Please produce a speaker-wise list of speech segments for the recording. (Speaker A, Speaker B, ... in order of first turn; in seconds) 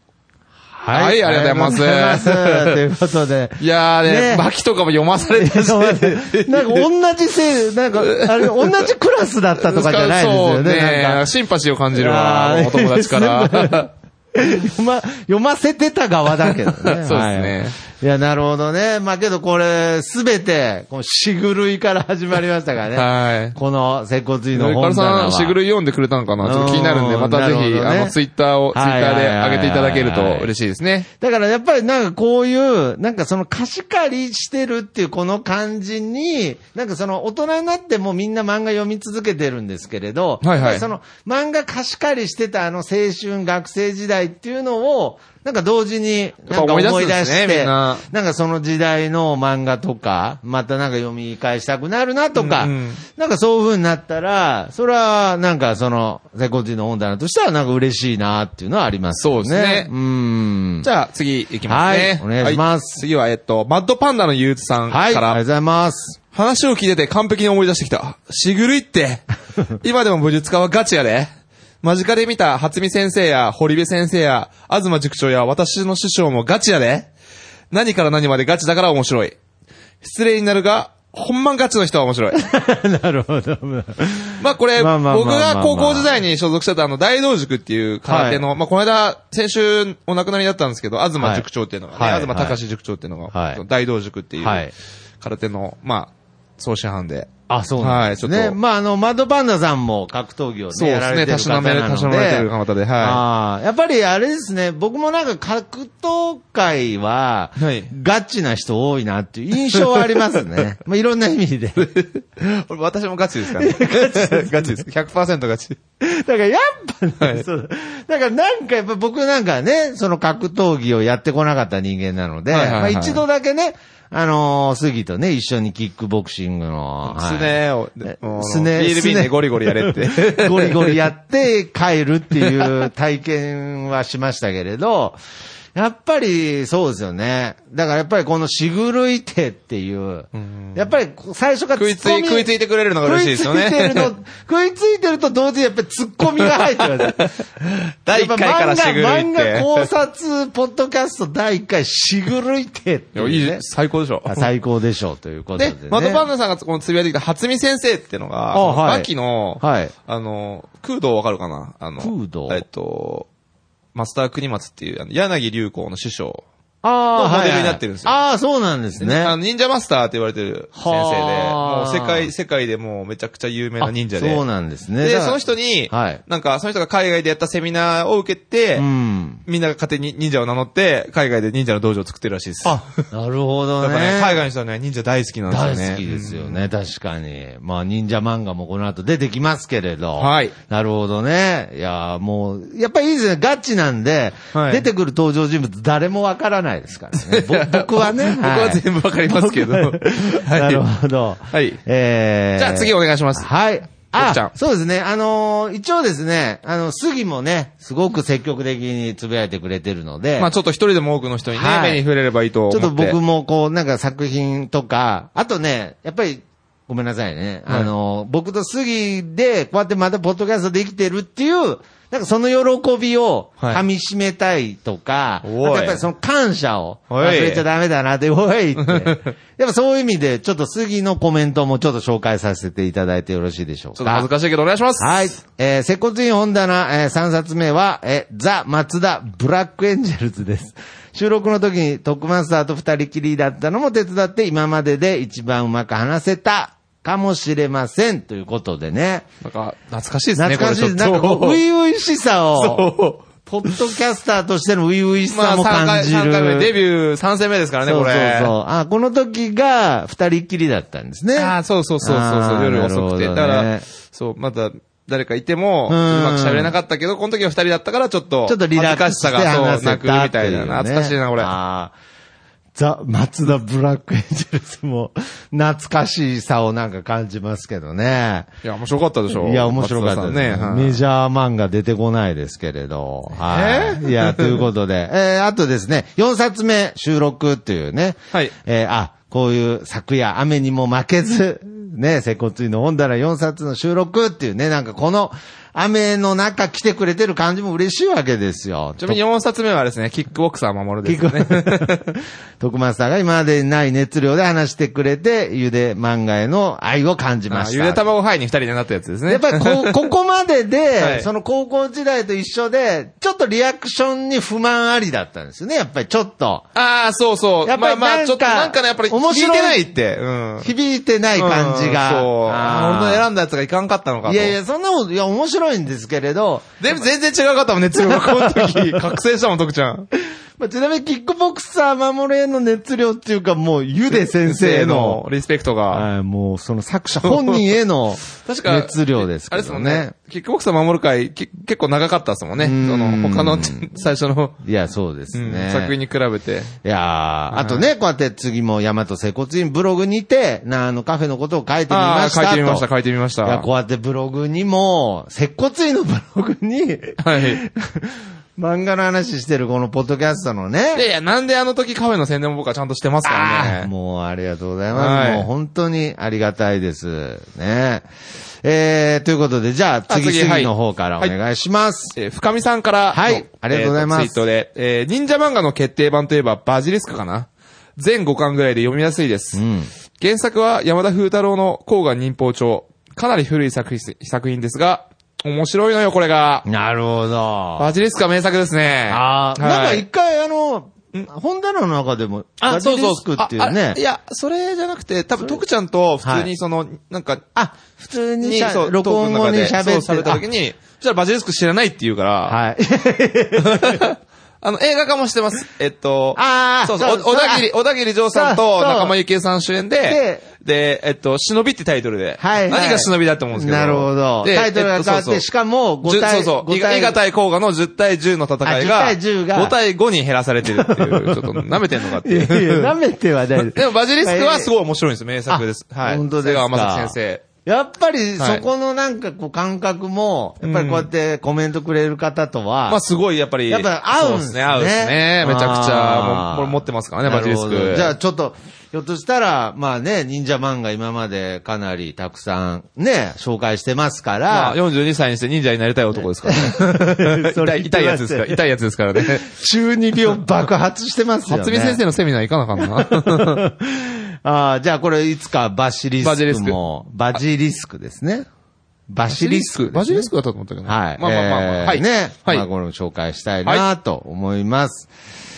Speaker A: 0.8-4.5, 5.4-11.2, 11.9-25.6, 26.4-28.1, 28.7-30.5, 31.2-60.9, 61.7-63.0, 64.9-66.2, 82.3-86.2, 88.1-88.4, 91.2-92.6, 93.3-93.6, 94.4-94.7, 97.5-102.5, 103.0-111.9, 113.5-114.8, 116.0-135.2, 135.7-142.5, 143.0-147.4, 148.1-153.6, 154.2-156.2, 158.5-159.9, 162.0-162.6, 166.8-169.3, 170.7-172.3, 173.8-175.4, 175.9-176.2, 178.8-179.4, 182.6-184.4, 185.5-210.5, 211.5-212.0, 212.7-234.3, 235.0-249.2, 250.4-252.9, 253.4-256.7, 257.8-263.8, 265.9-266.7, 268.4-271.9, 272.7-278.5, 279.4-299.2, 301.0-308.0, 309.3-316.7, 317.6-319.8, 320.6-323.2, 324.2-326.7, 328.1-329.0, 330.6-335.2, 335.9-340.1, 342.6-343.9, 344.6-345.9, 346.8-352.9, 353.4-361.0, 363.2-368.1, 368.6-372.1, 373.1-374.4, 379.5-379.9, 386.6-387.9, 389.1-394.0, 396.2-396.5, 397.5-400.4, 402.4-404.1, 406.4-407.7, 408.3-409.1, 410.1-410.5, 412.4-417.2, 418.6-419.7, 420.6-424.7, 425.5-433.0, 433.7-444.8, 446.4-448.6, 449.1-452.0, 452.8-458.5, 459.1-460.3, 460.8-465.1
Speaker B: 0.9-2.8, 3.6-6.9, 8.0-8.8, 9.6-13.9, 16.5-17.8, 22.9-23.6, 24.5-31.1, 40.4-40.8, 46.5-48.0, 52.3-53.0, 59.2-59.9, 60.8-65.4, 66.3-69.2, 69.8-71.3, 71.8-77.1, 77.7-79.3, 80.0-82.4, 84.4-94.6, 95.2-98.6, 100.7-103.2, 107.6-107.9, 109.7-110.2, 111.8-115.8, 117.2-117.5, 122.5-123.2, 127.0-131.0, 132.4-132.7, 140.3-140.8, 141.8-144.1, 146.4-147.4, 148.1-149.9, 153.1-154.5, 155.6-163.3, 163.9-166.4, 167.2-168.2, 169.0-174.4, 175.0-178.8, 179.4-183.0, 183.8-186.6, 190.2-190.5, 194.5-194.8, 197.2-200.8, 201.5-201.8, 202.6-203.5, 204.1-204.5, 210.4-213.2, 225.4-226.0, 227.1-227.6, 228.8-229.3, 233.9-235.2, 249.4-251.6, 252.6-253.9, 255.3-258.5, 261.4-271.5, 278.6-281.0, 283.4-284.6, 299.0-302.0, 307.5-310.0, 311.0-311.3, 316.7-320.7, 321.4-324.6, 326.8-330.1, 334.1-336.1, 337.2-337.6, 338.4-344.6, 345.3-346.7, 347.5-347.9, 351.9-353.6, 357.2-357.6, 360.9-363.9, 364.9-365.5, 370.1-371.3, 372.1-379.6, 380.2-386.6, 387.8-390.0, 392.6-397.4, 398.4-402.6, 403.6-415.4, 416.1-422.9, 423.6-427.4, 428.4-428.6, 430.6-431.1, 432.9-438.1, 444.5-449.4, 451.4-453.6, 456.2-456.8, 459.3-462.6